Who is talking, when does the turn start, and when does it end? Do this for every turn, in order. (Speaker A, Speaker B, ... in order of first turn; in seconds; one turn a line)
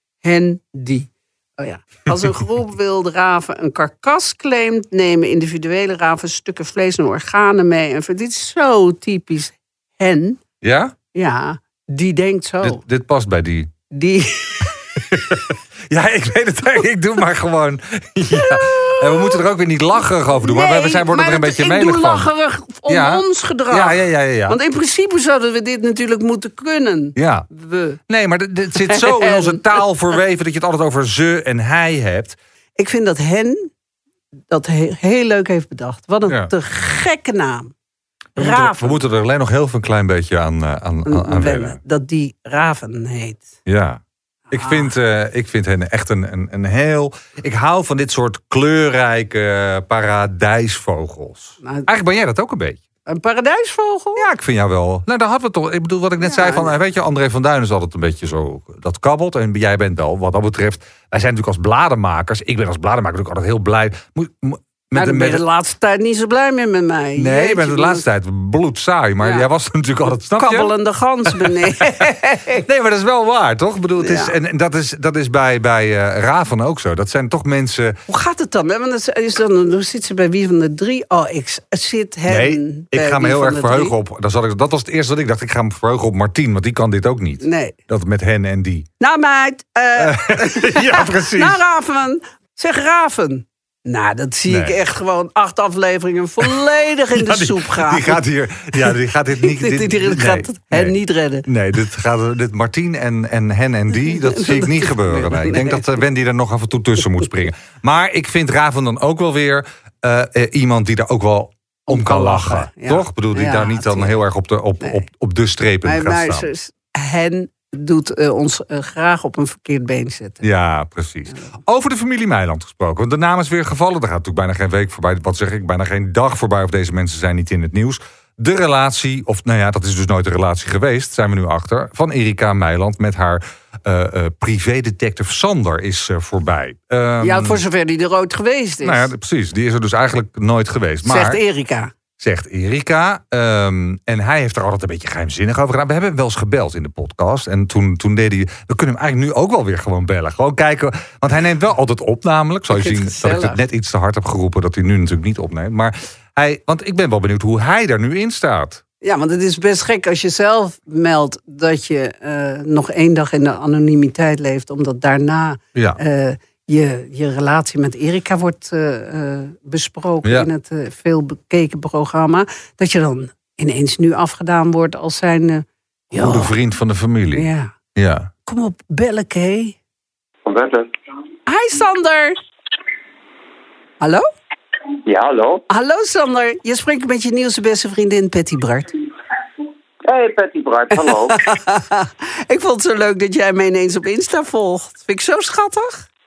Speaker A: 0.2-10.4
Speaker B: 10.6-10.9
Speaker A: 11.1-12.8
Speaker B: 12.6-13.7
Speaker A: 13.9-15.0
Speaker B: 15.1-22.3
Speaker A: 18.3-19.4
Speaker A: 20.4-28.0
Speaker B: 22.9-24.6
Speaker B: 27.2-27.5
Speaker B: 28.1-32.4
Speaker A: 28.8-29.6
Speaker A: 32.8-33.7
Speaker A: 34.5-37.7
Speaker A: 38.4-39.0
Speaker B: 38.4-41.8
Speaker A: 41.1-43.5
Speaker B: 43.7-52.8
Speaker A: 44.5-44.9
Speaker A: 51.6-51.9
Speaker A: 53.1-54.3
Speaker B: 54.2-65.4
Speaker A: 56.2-56.8
Speaker A: 65.0-68.0
Speaker B: 67.2-70.7
Speaker A: 69.2-69.5
Speaker A: 70.4-72.6
Speaker B: 71.3-72.1
Speaker B: 72.6-78.0
Speaker A: 74.0-74.3
Speaker A: 78.1-83.9
Speaker B: 82.3-88.9
Speaker A: 87.4-87.8
Speaker A: 89.0-98.2
Speaker B: 90.0-91.6
Speaker B: 94.5-94.8
Speaker B: 97.2-116.5
Speaker A: 99.4-101.5
Speaker A: 104.2-105.9
Speaker A: 111.9-114.2
Speaker A: 115.8-120.5
Speaker B: 120.4-137.6
Speaker A: 137.2-139.1
Speaker B: 138.8-141.4
Speaker A: 141.1-141.9
Speaker B: 142.2-158.8
Speaker A: 152.7-153.6
Speaker A: 159.0-176.5
Speaker B: 176.1-178.3
Speaker A: 177.3-177.7
Speaker A: 178.4-179.8
Speaker C: 180.4-180.9
Speaker A: 181.5-182.4
Speaker C: 185.1-185.6
Speaker A: 185.7-188.9
Speaker C: 190.1-191.4
Speaker A: 190.9-196.1